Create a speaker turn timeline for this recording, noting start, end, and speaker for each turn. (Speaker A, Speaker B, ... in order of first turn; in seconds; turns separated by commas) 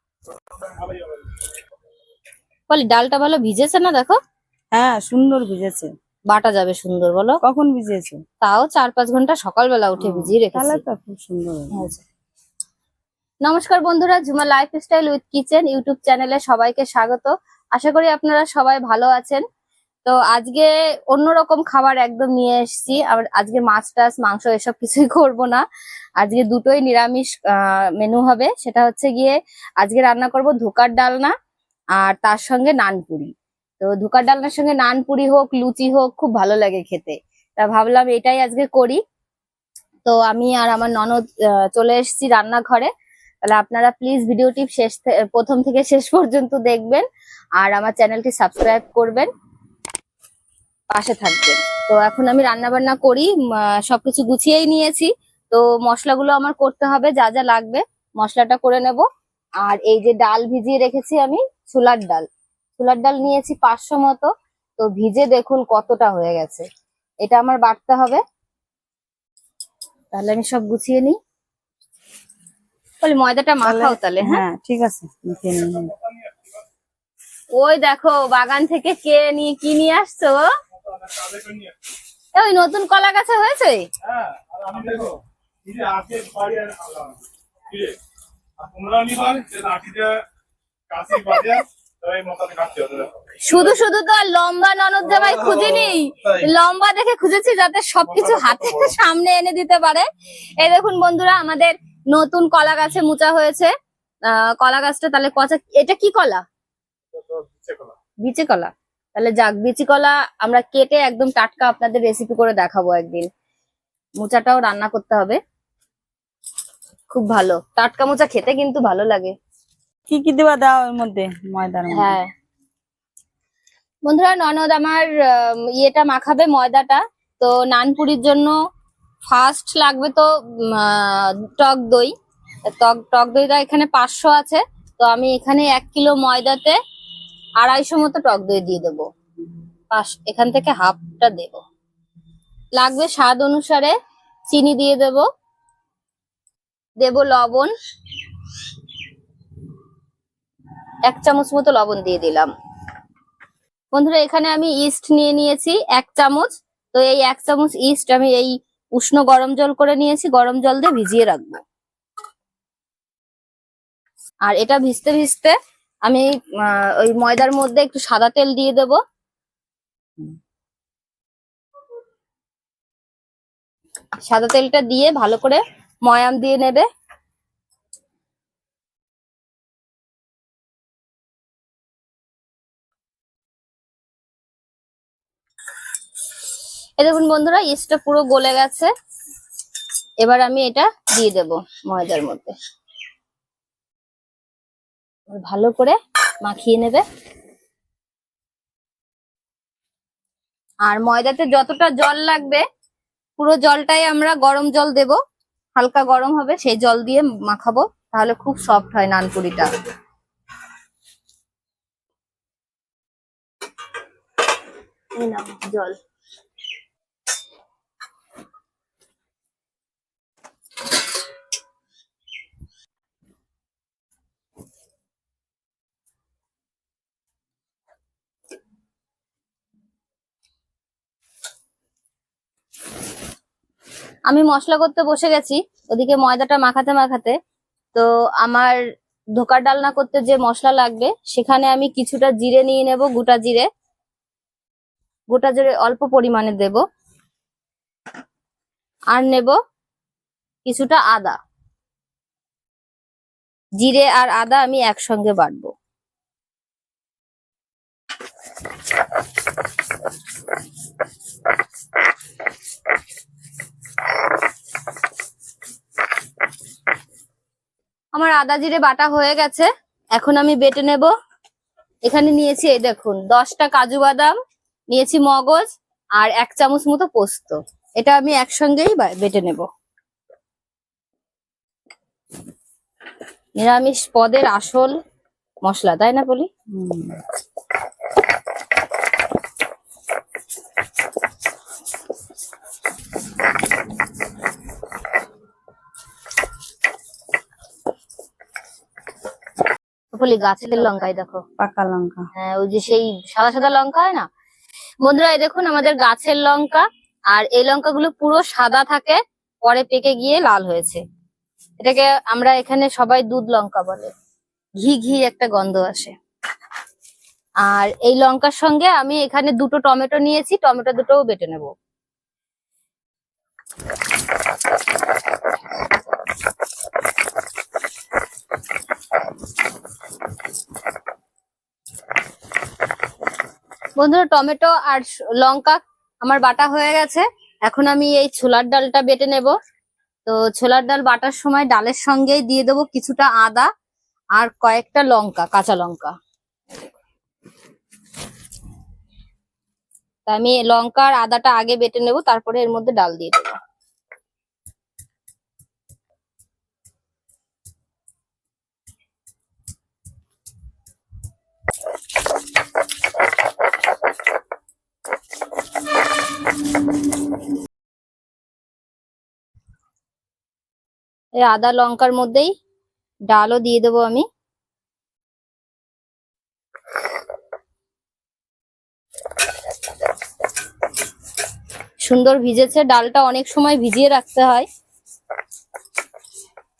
Speaker A: 2.7-4.2, Speaker B: 4.7-5.9, Speaker A: 6.3-7.4, Speaker B: 7.4-8.2, Speaker A: 8.4-10.8, Speaker B: 10.0-11.9, Speaker A: 11.7-12.0, Speaker A: 13.4-19.4, Speaker A: 20.1-25.6, Speaker A: 26.2-31.3, Speaker A: 32.0-39.0, Speaker A: 40.0-42.9, Speaker A: 43.4-47.0, Speaker A: 47.6-49.3, Speaker A: 50.9-59.0, Speaker A: 59.6-62.3, Speaker A: 62.8-66.7, Speaker A: 67.2-68.2, Speaker A: 70.1-71.2, Speaker A: 73.0-74.4, Speaker B: 73.6-75.9, Speaker A: 77.5-80.5, Speaker C: 80.7-81.7, Speaker A: 82.3-83.9, Speaker C: 84.0-88.0, Speaker C: 88.6-90.2, Speaker C: 90.9-93.8, Speaker A: 93.4-100.1, Speaker C: 95.3-96.5, Speaker C: 98.1-99.0, Speaker A: 100.6-103.7, Speaker A: 104.2-106.4, Speaker C: 107.1-107.9, Speaker A: 108.2-113.3, Speaker A: 114.2-115.4, Speaker A: 117.1-119.3, Speaker B: 120.1-122.2, Speaker A: 121.9-122.3, Speaker A: 124.0-128.5, Speaker A: 129.3-132.1, Speaker A: 132.6-136.8, Speaker A: 137.6-139.1, Speaker A: 139.9-141.6, Speaker A: 142.8-143.9, Speaker A: 144.5-145.2, Speaker A: 147.0-147.7, Speaker A: 151.1-152.5, Speaker A: 153.9-161.6, Speaker A: 164.4-169.0, Speaker A: 174.2-176.9, Speaker A: 187.0-188.9, Speaker A: 190.2-192.5, Speaker A: 195.3-197.0, Speaker A: 200.8-202.6, Speaker A: 203.4-205.2, Speaker A: 205.8-209.7, Speaker A: 215.2-216.0, Speaker A: 234.3-237.4, Speaker A: 237.9-238.8, Speaker A: 239.3-243.7, Speaker A: 245.3-246.8, Speaker A: 249.1-249.6, Speaker A: 250.7-251.4, Speaker A: 253.8-255.7, Speaker A: 268.1-271.1, Speaker A: 272.1-274.4, Speaker A: 274.9-279.7, Speaker A: 283.6-285.0, Speaker A: 285.6-286.5, Speaker B: 286.7-287.2, Speaker A: 300.1-301.4, Speaker B: 301.6-302.3, Speaker A: 302.4-304.3, Speaker A: 305.0-311.0, Speaker A: 311.8-314.1, Speaker A: 314.8-316.1, Speaker A: 317.6-321.7, Speaker A: 334.0-339.5, Speaker A: 340.2-343.7, Speaker A: 344.3-346.1, Speaker A: 350.3-353.6, Speaker A: 371.4-372.5, Speaker A: 373.3-374.2, Speaker A: 382.0-384.6